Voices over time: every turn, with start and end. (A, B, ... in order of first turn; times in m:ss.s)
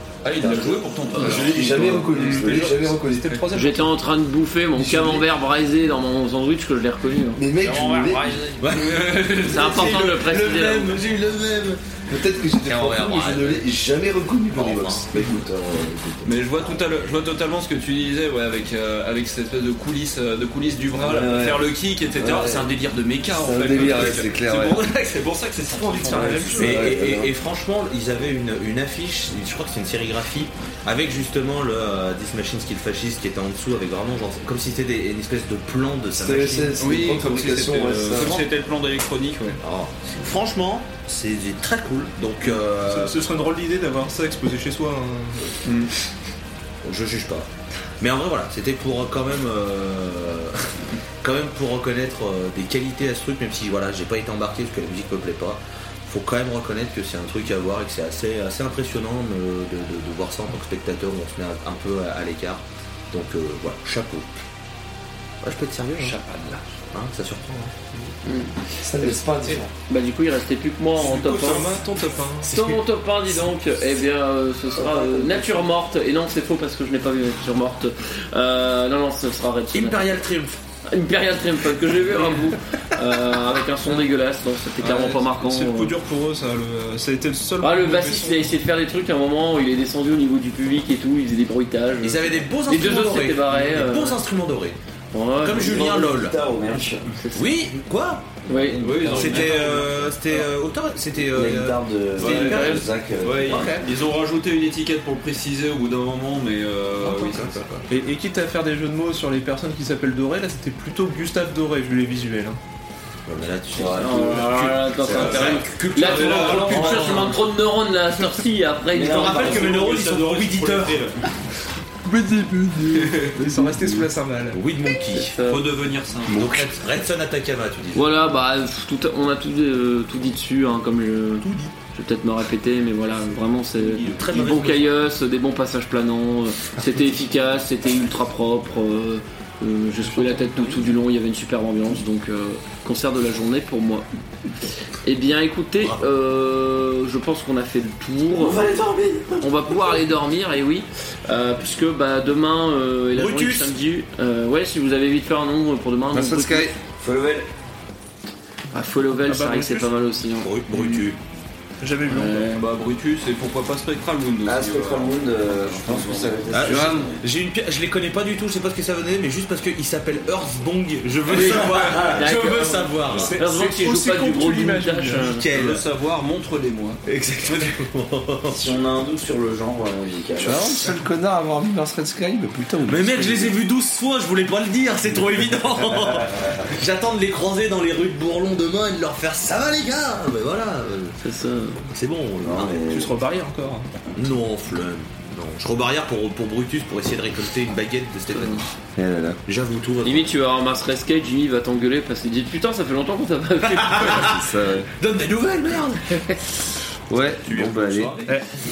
0:00.2-0:03.8 A
0:00.3-0:03.6 B
0:02.3-0:02.7 C
0:03.5-0:07.4 D
0:04.7-0:05.2 B
0:07.4-0:08.4 B
0:07.6-0:09.9 A
0:08.6-0:13.7 E
0:09.4-0:11.0 D
0:12.1-0:16.4 B
0:14.5-0:15.4 E
0:16.2-0:26.9 A
0:20.9-0:22.7 B
0:23.3-0:24.8 B
0:25.8-0:26.8 C
0:26.0-0:27.3 B
0:26.5-0:36.8 E
0:36.1-0:38.3 B
0:36.8-0:39.6 A
0:38.1-0:38.5 E
0:39.6-0:43.2 E
0:42.8-0:45.7 C
0:45.6-0:45.9 A
0:46.8-0:47.5 E
0:48.0-1:04.3 E
1:05.4-1:06.2 E
1:06.0-1:06.6 A
1:06.9-1:07.4 E
1:07.5-1:08.1 C
1:08.2-1:08.5 D
1:08.8-1:09.7 B
1:09.9-1:11.7 D
1:11.0-1:12.8 C
1:11.2-1:11.7 A
1:12.4-1:20.2 D
1:14.8-1:15.6 F
1:19.7-1:20.6 E
1:20.8-1:25.9 D
1:24.8-1:28.5 C
1:27.6-1:34.2 D
1:32.0-1:34.8 E
1:35.1-1:36.1 D
1:35.4-1:36.4 E
1:35.6-1:37.2 F
1:37.0-1:37.5 D
1:37.3-1:38.4 E
1:38.4-1:39.6 D
1:38.5-1:39.4 F
1:38.8-1:40.1 A
1:39.0-1:42.8 E
1:41.3-1:43.8 F
1:42.2-1:47.8 A
1:43.5-1:43.8 C
1:47.0-1:52.6 C
1:53.2-1:57.4 E
1:53.8-1:54.3 B
1:53.9-1:59.7 D
1:55.0-1:55.5 B
1:55.2-1:57.3 A
1:58.9-1:59.7 F
1:59.0-2:01.1 E
1:59.2-2:01.2 A
2:02.0-2:04.1 B
2:03.0-2:03.3 A
2:03.3-2:04.6 C
2:04.5-2:05.4 E
2:05.1-2:05.6 D
2:05.4-2:06.5 A
2:06.3-2:08.2 E
2:07.9-2:28.8 D
2:13.8-2:15.0 E
2:28.3-2:30.0 F
2:29.4-2:36.8 D
2:33.1-2:33.7 E
2:36.1-2:36.7 B
2:37.0-2:37.5 F
2:38.7-2:40.5 D
2:39.3-2:39.9 C
2:40.3-2:41.2 E
2:40.7-2:41.0 A
2:41.8-2:42.6 C
2:42.1-2:46.4 A
2:44.4-2:47.2 F
2:46.5-2:53.4 E
2:46.5-2:47.1 B
2:52.0-2:55.4 D
2:53.1-2:55.3 C
2:55.2-2:55.8 E
2:55.5-2:57.0 A
2:57.0-2:58.8 E
2:58.5-3:00.8 F
3:00.4-3:03.5 B
3:02.8-3:11.2 E
3:11.2-3:11.8 D
3:11.9-3:12.8 E
3:12.4-3:13.2 F
3:12.9-3:14.0 C
3:14.2-3:18.8 E
3:18.3-3:18.6 D
3:19.0-3:19.4 B
3:19.4-3:20.3 E
3:20.0-3:24.3 D
3:23.6-3:26.2 E
3:24.0-3:24.9 B
3:27.1-3:28.2 B
3:27.4-3:28.5 E